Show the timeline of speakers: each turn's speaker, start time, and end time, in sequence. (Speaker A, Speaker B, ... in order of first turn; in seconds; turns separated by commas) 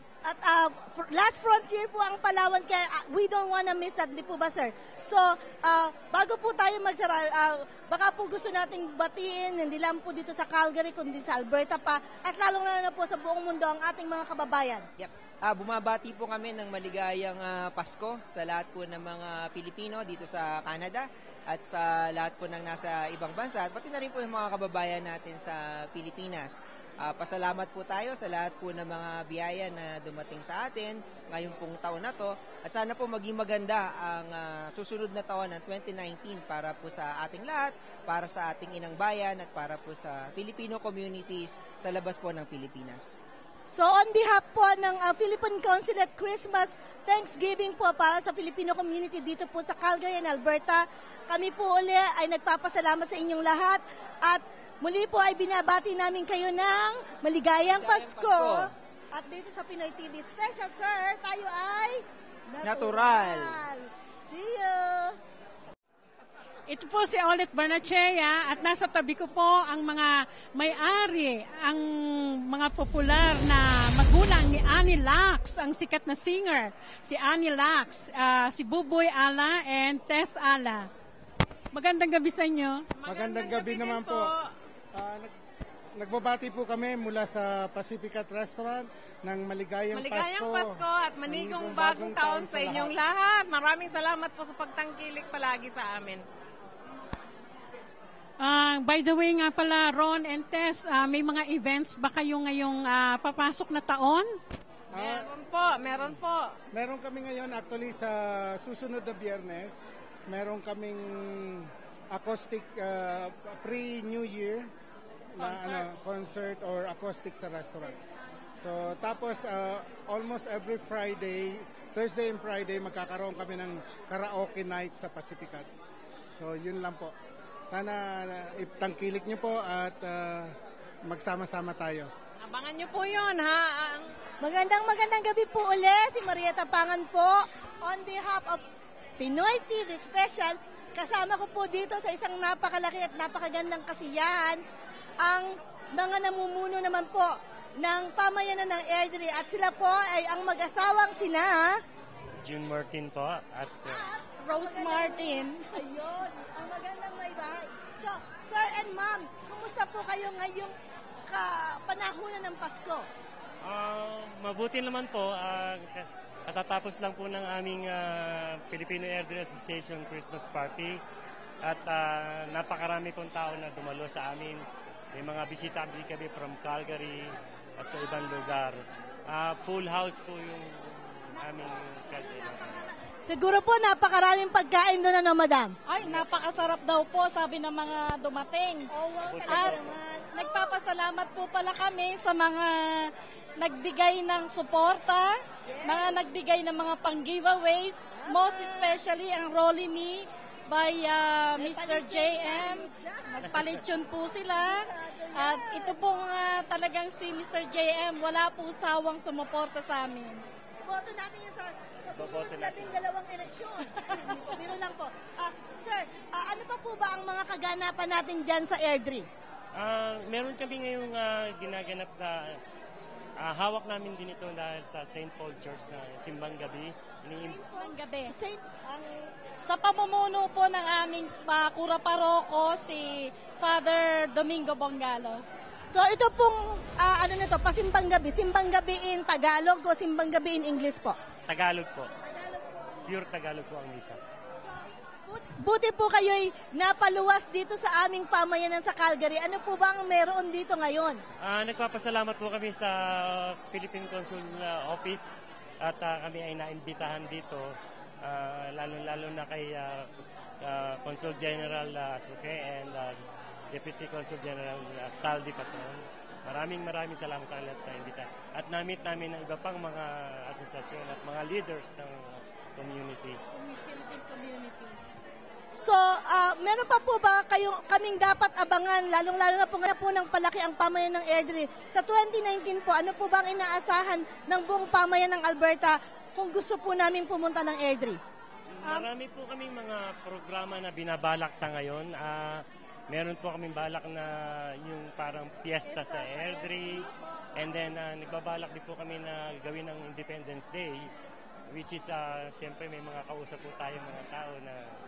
Speaker A: 0.2-14.8, Speaker B: 15.0-43.2, Speaker A: 43.7-65.2, Speaker B: 57.7-58.7, Speaker B: 62.6-63.6, Speaker C: 66.7-80.9, Speaker C: 81.7-82.9, Speaker D: 83.0-84.4, Speaker E: 83.0-84.3, Speaker E: 84.9-85.3, Speaker E: 86.0-92.9, Speaker D: 89.9-96.2, Speaker C: 98.4-104.3, Speaker E: 104.9-105.3, Speaker D: 104.9-106.5, Speaker E: 106.7-114.7, Speaker E: 115.3-118.0, Speaker D: 115.4-115.9, Speaker E: 118.6-125.7, Speaker E: 126.3-127.1, Speaker E: 127.7-130.5, Speaker E: 131.1-132.1, Speaker D: 132.4-134.1, Speaker A: 134.4-138.6, Speaker A: 139.2-144.6, Speaker A: 145.2-151.8, Speaker F: 152.4-154.0, Speaker A: 153.8-160.8, Speaker G: 154.4-155.7, Speaker A: 161.3-163.1, Speaker F: 163.6-171.0, Speaker F: 171.6-174.6, Speaker F: 175.1-182.9, Speaker A: 181.5-185.7, Speaker G: 185.9-188.9, Speaker A: 188.9-190.8, Speaker F: 189.2-189.9, Speaker G: 189.5-189.8, Speaker G: 190.3-192.7, Speaker G: 193.6-210.4, Speaker A: 195.7-196.3, Speaker A: 198.1-199.0, Speaker A: 201.6-203.7, Speaker A: 204.6-205.9, Speaker A: 210.8-219.3, Speaker F: 212.1-213.0, Speaker F: 219.8-222.6, Speaker F: 223.4-227.5, Speaker A: 227.4-229.3, Speaker G: 227.7-228.3, Speaker G: 229.6-235.6, Speaker A: 235.9-241.2, Speaker F: 241.5-242.1, Speaker A: 242.2-243.1, Speaker F: 243.1-244.2, Speaker A: 244.6-251.2, Speaker F: 251.4-255.3, Speaker F: 255.8-257.7, Speaker F: 258.2-260.1, Speaker F: 260.6-273.4, Speaker G: 273.5-274.9, Speaker A: 275.7-288.2, Speaker F: 288.8-292.6, Speaker F: 293.1-301.1, Speaker G: 295.8-296.8, Speaker F: 301.7-304.9